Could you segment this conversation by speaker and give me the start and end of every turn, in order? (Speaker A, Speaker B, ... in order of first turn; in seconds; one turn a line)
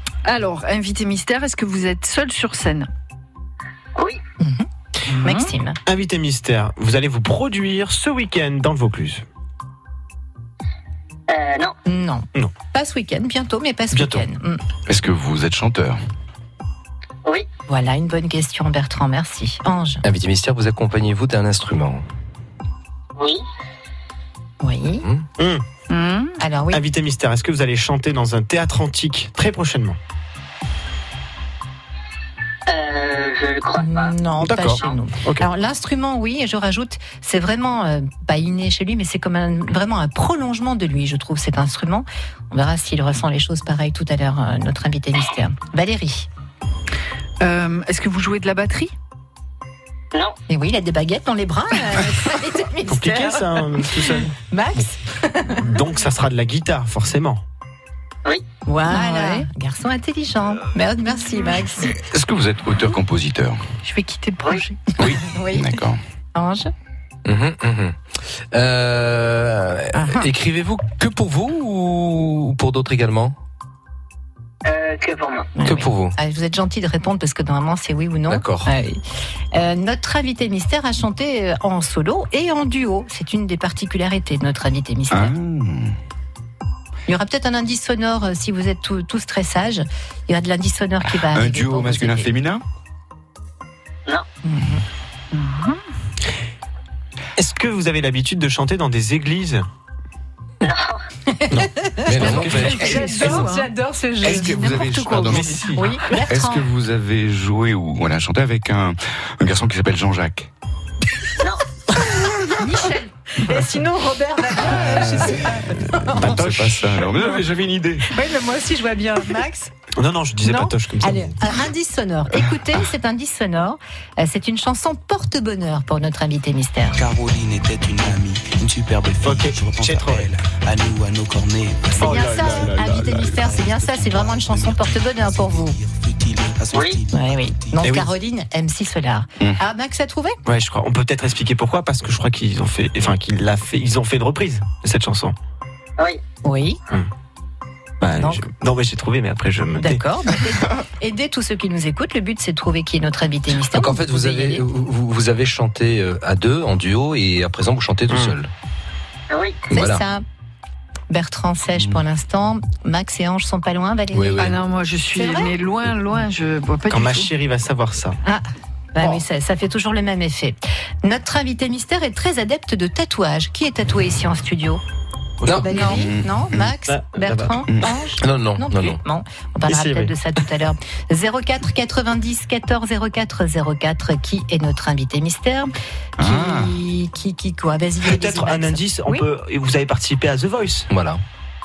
Speaker A: 0.2-2.9
Speaker B: 4.4-4.7
Speaker A: 5.1-5.5
Speaker B: 5.2-5.8
Speaker C: 5.9-9.2
Speaker D: 11.3-11.8
Speaker B: 11.9-14.6
Speaker C: 13.9-14.2
Speaker E: 14.9-16.0
Speaker B: 17.7-20.0
Speaker F: 20.0-22.0
Speaker D: 23.2-23.4
Speaker B: 24.6-25.1
Speaker C: 25.4-25.6
Speaker A: 25.9-26.4
Speaker B: 26.4-26.8
Speaker C: 26.7-30.0
Speaker D: 32.7-34.2
Speaker B: 33.8-46.3
Speaker C: 34.4-35.5
Speaker A: 47.4-48.9
Speaker B: 50.5-53.9
Speaker C: 52.9-54.8
Speaker B: 54.5-55.7
Speaker C: 55.6-57.4
Speaker B: 58.7-62.0
Speaker A: 58.9-59.5
Speaker E: 61.8-63.6
Speaker A: 63.8-64.9
Speaker E: 65.0-66.0
Speaker B: 65.2-65.7
Speaker B: 66.3-66.7
Speaker F: 67.3-68.0
Speaker F: 68.5-73.4
Speaker B: 69.9-70.3
Speaker D: 74.7-75.5
Speaker B: 75.6-79.0
Speaker F: 75.6-76.2
Speaker F: 78.3-78.7
Speaker B: 79.5-85.3
Speaker E: 85.1-86.0
Speaker B: 87.1-92.3
Speaker E: 91.2-92.6
Speaker B: 94.4-94.8
Speaker A: 95.3-95.8
Speaker C: 97.4-99.7
Speaker D: 100.6-101.0
Speaker B: 101.3-104.9
Speaker F: 102.0-102.9
Speaker C: 102.2-103.4
Speaker A: 102.4-106.2
Speaker E: 104.2-105.7
Speaker C: 104.3-106.0
Speaker B: 105.8-106.7
Speaker E: 106.3-110.5
Speaker C: 112.1-112.4
Speaker A: 112.5-113.1
Speaker B: 113.4-116.4
Speaker C: 114.6-116.9
Speaker E: 116.1-118.1
Speaker B: 118.1-119.7
Speaker C: 120.0-121.4
Speaker B: 120.4-127.0
Speaker G: 126.9-138.0
Speaker C: 129.2-130.3
Speaker B: 132.0-135.8
Speaker C: 132.0-133.3
Speaker D: 136.7-137.0
Speaker B: 137.1-140.4
Speaker C: 137.8-138.1
Speaker C: 140.4-145.4
Speaker B: 146.4-146.8
Speaker C: 148.0-150.1
Speaker B: 148.2-148.5
Speaker B: 149.8-154.7
Speaker F: 153.7-158.5
Speaker C: 158.1-158.3
Speaker D: 159.3-159.6
Speaker F: 159.7-160.0
Speaker B: 159.7-160.2
Speaker B: 161.1-164.6
Speaker F: 164.1-164.6
Speaker A: 164.4-167.3
Speaker B: 165.2-165.5
Speaker C: 166.9-168.2
Speaker B: 168.2-174.8
Speaker C: 175.4-176.1
Speaker F: 175.4-175.8
Speaker B: 175.6-189.3
Speaker E: 175.8-176.7
Speaker C: 176.9-177.6
Speaker F: 178.2-179.0
Speaker C: 179.7-180.1
Speaker E: 186.2-186.8
Speaker C: 188.0-190.9
Speaker F: 190.9-191.2